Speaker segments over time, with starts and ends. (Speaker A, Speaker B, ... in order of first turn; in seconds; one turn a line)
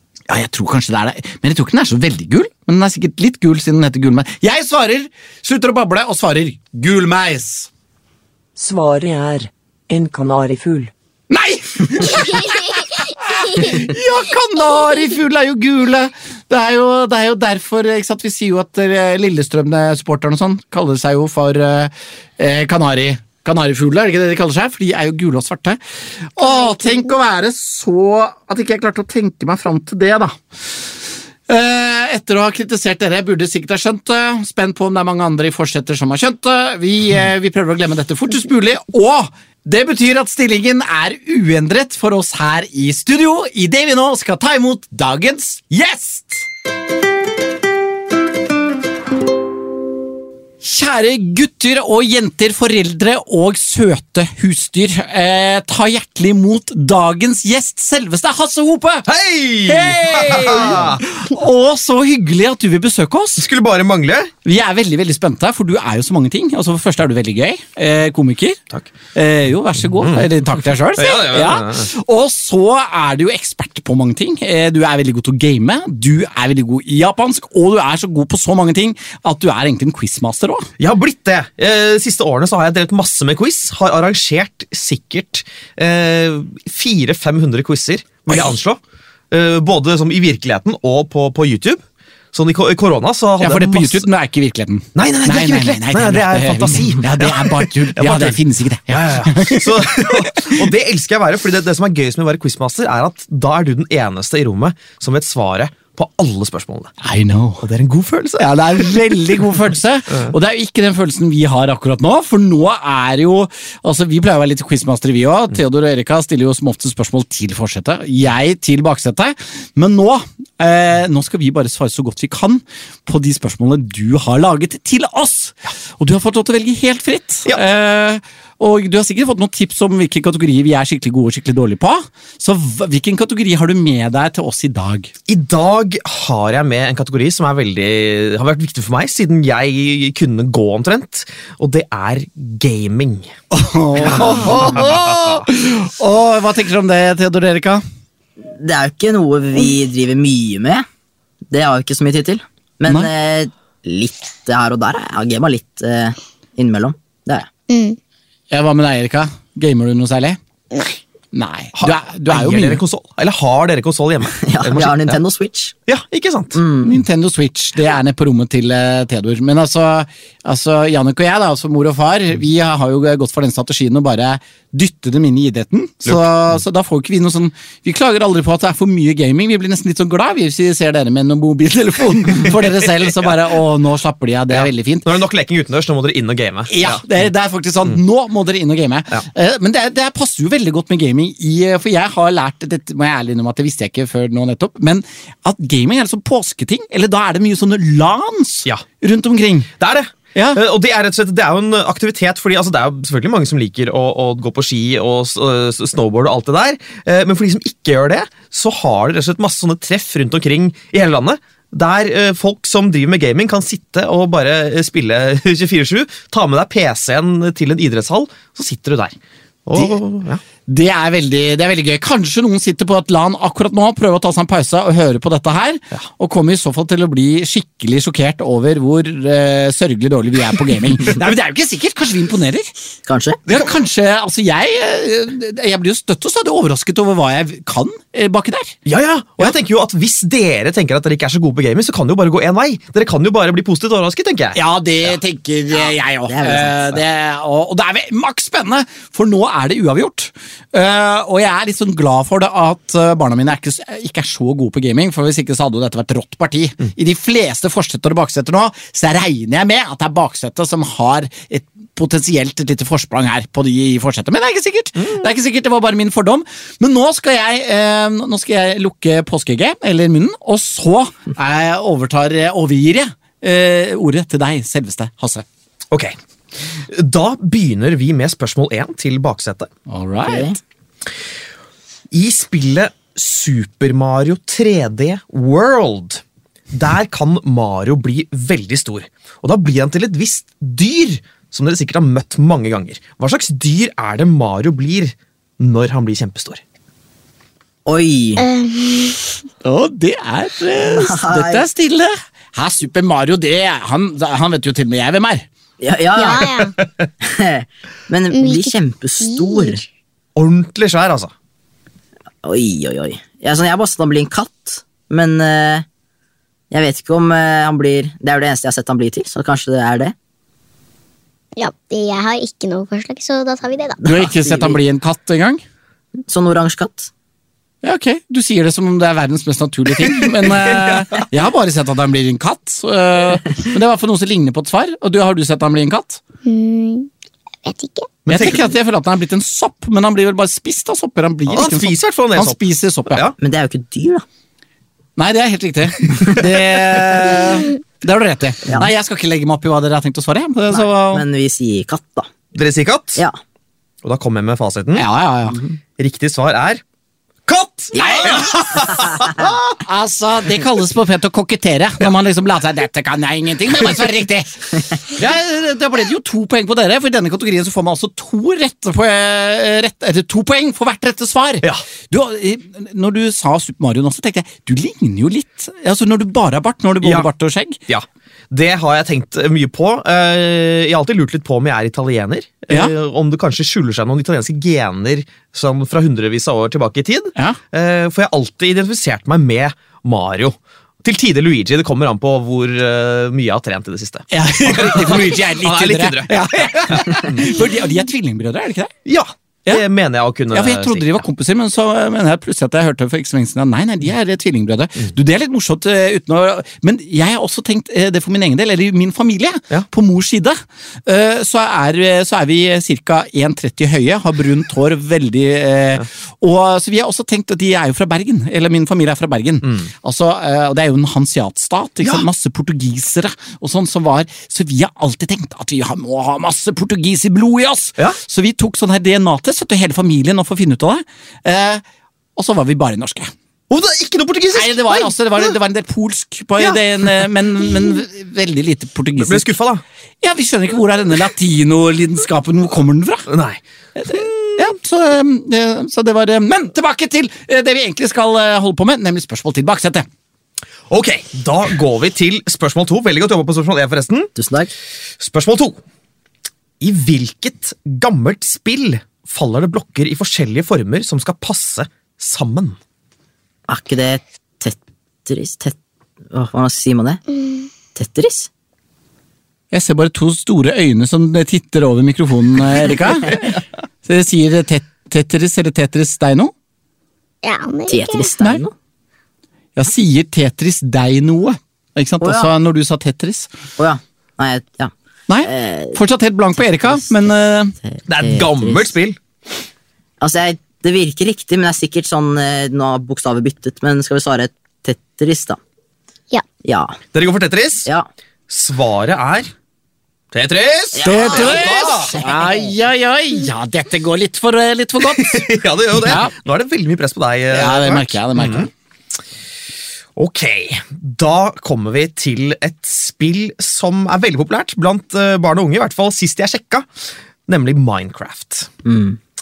Speaker A: 0.3-7.7
Speaker B: 8.6-10.9
Speaker A: 11.3-25.8
Speaker A: 26.4-30.4
Speaker A: 31.5-46.5
Speaker A: 50.6-59.1
Speaker C: 59.1-61.0
Speaker A: 59.7-63.5
Speaker C: 63.4-64.3
Speaker A: 64.5-68.6
Speaker A: 69.1-80.7
Speaker C: 70.0-70.3
Speaker C: 71.0-71.9
Speaker C: 80.8-88.8
Speaker C: 89.3-94.0
Speaker A: 93.4-100.7
Speaker C: 95.0-106.9
Speaker A: 107.0-107.7
Speaker C: 107.6-109.2
Speaker A: 108.4-135.1
Speaker C: 135.3-143.3
Speaker A: 143.5-147.8
Speaker C: 144.0-145.4
Speaker D: 148.4-150.8
Speaker D: 151.5-157.5
Speaker E: 157.7-158.0
Speaker A: 158.5-160.4
Speaker A: 161.3-162.8
Speaker C: 161.8-165.2
Speaker D: 164.4-165.8
Speaker C: 165.9-166.6
Speaker D: 166.5-167.0
Speaker A: 166.8-185.1
Speaker C: 184.5-187.1
Speaker A: 186.7-199.7
Speaker C: 199.8-220.4
Speaker A: 200.3-200.6
Speaker A: 220.7-232.7
Speaker D: 233.1-233.4
Speaker A: 233.5-238.8
Speaker C: 238.9-244.6
Speaker A: 244.6-275.5
Speaker D: 246.3-247.0
Speaker C: 276.9-279.7
Speaker A: 279.9-280.6
Speaker D: 280.3-280.6
Speaker C: 282.1-296.6
Speaker D: 297.9-298.4
Speaker E: 298.4-299.4
Speaker A: 299.6-305.5
Speaker D: 300.9-301.7
Speaker D: 305.8-306.6
Speaker E: 306.2-306.8
Speaker D: 307.2-309.8
Speaker E: 308.3-308.7
Speaker E: 309.2-309.8
Speaker C: 310.4-311.3
Speaker D: 312.4-315.9
Speaker D: 316.7-320.1
Speaker E: 321.6-324.0
Speaker D: 324.0-324.8
Speaker A: 324.1-325.6
Speaker D: 326.3-327.1
Speaker A: 327.8-336.2
Speaker C: 330.2-331.2
Speaker E: 336.4-337.1
Speaker E: 337.6-338.1
Speaker C: 338.3-338.7
Speaker A: 338.3-343.2
Speaker C: 341.5-343.4
Speaker D: 343.4-344.2
Speaker A: 345.2-351.2
Speaker D: 350.7-352.3
Speaker C: 352.5-353.2
Speaker C: 354.0-355.1
Speaker A: 355.0-355.6
Speaker D: 355.5-355.8
Speaker C: 356.0-356.8
Speaker C: 357.5-359.8
Speaker D: 357.9-359.3
Speaker A: 358.1-358.5
Speaker A: 359.8-377.8
Speaker C: 377.0-377.3
Speaker C: 377.9-397.5
Speaker A: 394.3-398.9
Speaker C: 399.1-401.2
Speaker A: 400.5-431.8
Speaker A: 432.4-433.3
Speaker C: 433.7-435.1
Speaker A: 434.6-439.5
Speaker C: 439.2-439.8
Speaker A: 440.2-443.3
Speaker C: 443.3-444.7
Speaker A: 444.0-450.1
Speaker C: 450.9-454.3
Speaker D: 454.4-454.7
Speaker C: 455.2-455.8
Speaker C: 456.8-462.8
Speaker D: 463.7-465.8
Speaker D: 466.3-467.2
Speaker E: 467.4-467.7
Speaker D: 467.9-468.5
Speaker A: 469.7-476.5
Speaker E: 477.4-478.3
Speaker D: 477.9-478.7
Speaker A: 479.8-483.5
Speaker D: 482.2-482.5
Speaker D: 483.8-484.9
Speaker A: 485.3-487.8
Speaker D: 485.4-486.0
Speaker D: 486.6-488.9
Speaker C: 488.1-489.2
Speaker D: 490.2-495.6
Speaker D: 496.6-497.0
Speaker C: 497.1-497.9
Speaker C: 498.5-499.5
Speaker C: 500.3-502.2
Speaker D: 500.9-502.7
Speaker A: 501.0-506.3
Speaker C: 505.1-508.7
Speaker A: 507.5-508.7
Speaker C: 510.2-516.9
Speaker C: 517.5-518.7
Speaker D: 518.9-519.2